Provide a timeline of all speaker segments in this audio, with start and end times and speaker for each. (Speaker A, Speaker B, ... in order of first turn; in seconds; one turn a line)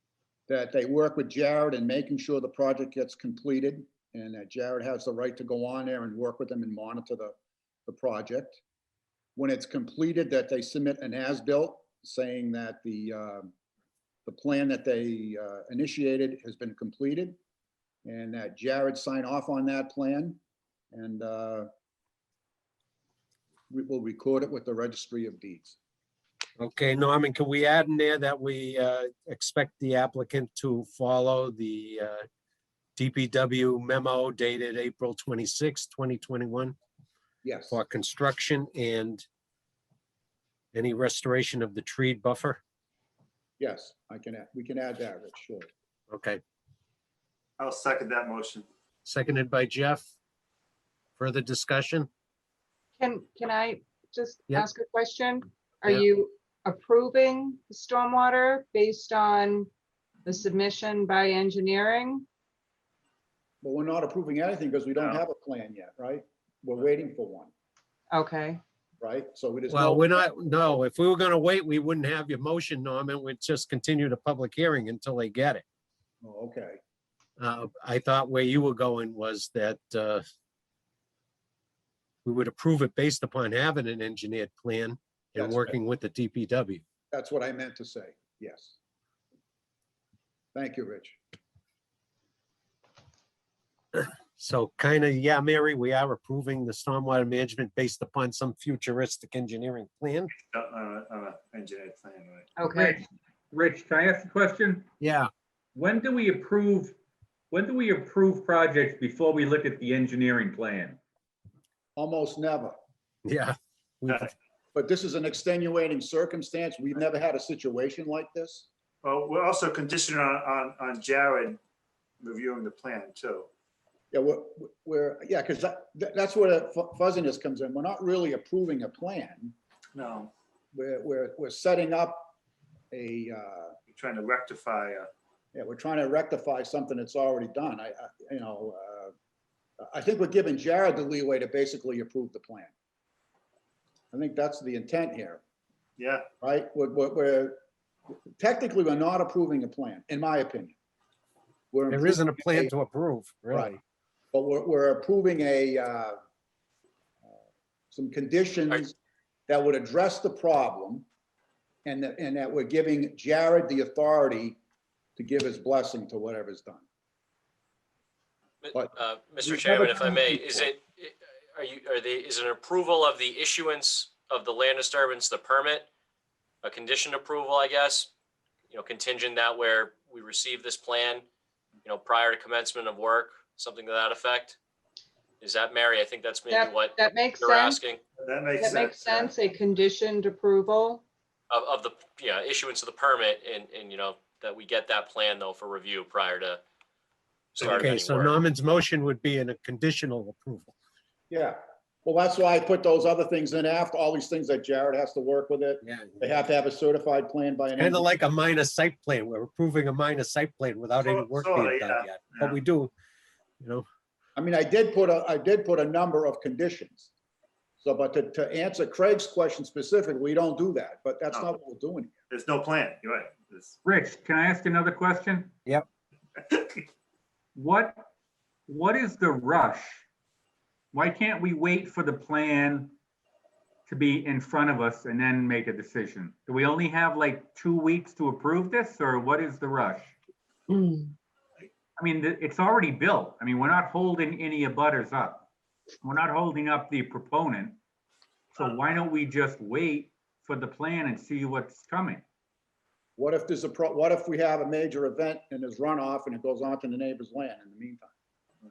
Speaker A: 0.5-7.3
Speaker A: 7.9-8.6
Speaker A: 9.3-13.5
Speaker A: 14.2-17.4
Speaker A: 18.0-20.4
Speaker A: 20.9-21.7
Speaker A: 23.7-25.8
Speaker B: 26.6-32.2
Speaker B: 33.0-36.7
Speaker A: 37.4-37.8
Speaker B: 37.7-39.2
Speaker B: 40.7-42.6
Speaker A: 43.6-45.7
Speaker B: 46.1-46.4
Speaker C: 47.6-48.6
Speaker B: 49.0-50.1
Speaker B: 51.2-52.1
Speaker D: 53.0-59.7
Speaker D: 60.2-62.2
Speaker A: 63.6-67.5
Speaker D: 68.1-68.6
Speaker A: 69.0-70.4
Speaker B: 69.7-75.6
Speaker A: 76.2-76.8
Speaker B: 77.4-80.2
Speaker B: 82.2-86.8
Speaker A: 85.4-85.8
Speaker A: 87.1-88.8
Speaker A: 90.5-91.2
Speaker B: 93.9-100.3
Speaker C: 100.5-102.5
Speaker D: 102.6-103.0
Speaker E: 102.7-104.9
Speaker B: 105.0-105.3
Speaker E: 105.7-106.9
Speaker E: 107.5-111.0
Speaker A: 112.0-112.7
Speaker B: 113.2-114.3
Speaker A: 114.7-118.7
Speaker C: 119.0-121.6
Speaker C: 122.2-123.5
Speaker A: 124.1-129.5
Speaker C: 129.9-130.3
Speaker A: 130.7-132.3
Speaker A: 132.9-133.8
Speaker C: 133.9-135.1
Speaker A: 135.5-139.1
Speaker A: 139.8-142.7
Speaker A: 144.1-145.4
Speaker C: 146.0-146.2
Speaker A: 146.4-147.6
Speaker A: 148.4-150.7
Speaker A: 151.7-152.7
Speaker B: 151.9-153.8
Speaker A: 153.5-153.8
Speaker A: 154.3-156.2
Speaker A: 157.9-158.9
Speaker A: 159.5-161.1
Speaker A: 161.8-164.6
Speaker A: 165.2-166.8
Speaker F: 168.6-175.9
Speaker A: 168.7-170.7
Speaker F: 176.6-178.1
Speaker F: 178.7-181.2
Speaker F: 181.8-184.6
Speaker F: 185.4-188.0
Speaker D: 186.5-187.9
Speaker C: 188.2-189.3
Speaker D: 188.6-191.0
Speaker F: 191.5-196.6
Speaker F: 197.5-198.3
Speaker C: 197.6-197.9
Speaker B: 197.6-200.7
Speaker A: 201.3-208.1
Speaker B: 205.8-206.2
Speaker B: 207.8-212.9
Speaker C: 211.0-212.6
Speaker A: 214.4-217.1
Speaker A: 217.8-222.1
Speaker C: 222.3-223.8
Speaker E: 223.8-225.5
Speaker C: 226.5-226.8
Speaker E: 227.6-228.1
Speaker E: 228.7-230.0
Speaker E: 230.9-232.9
Speaker E: 233.9-240.1
Speaker E: 242.0-245.4
Speaker E: 246.0-247.8
Speaker E: 248.5-252.2
Speaker A: 253.2-258.1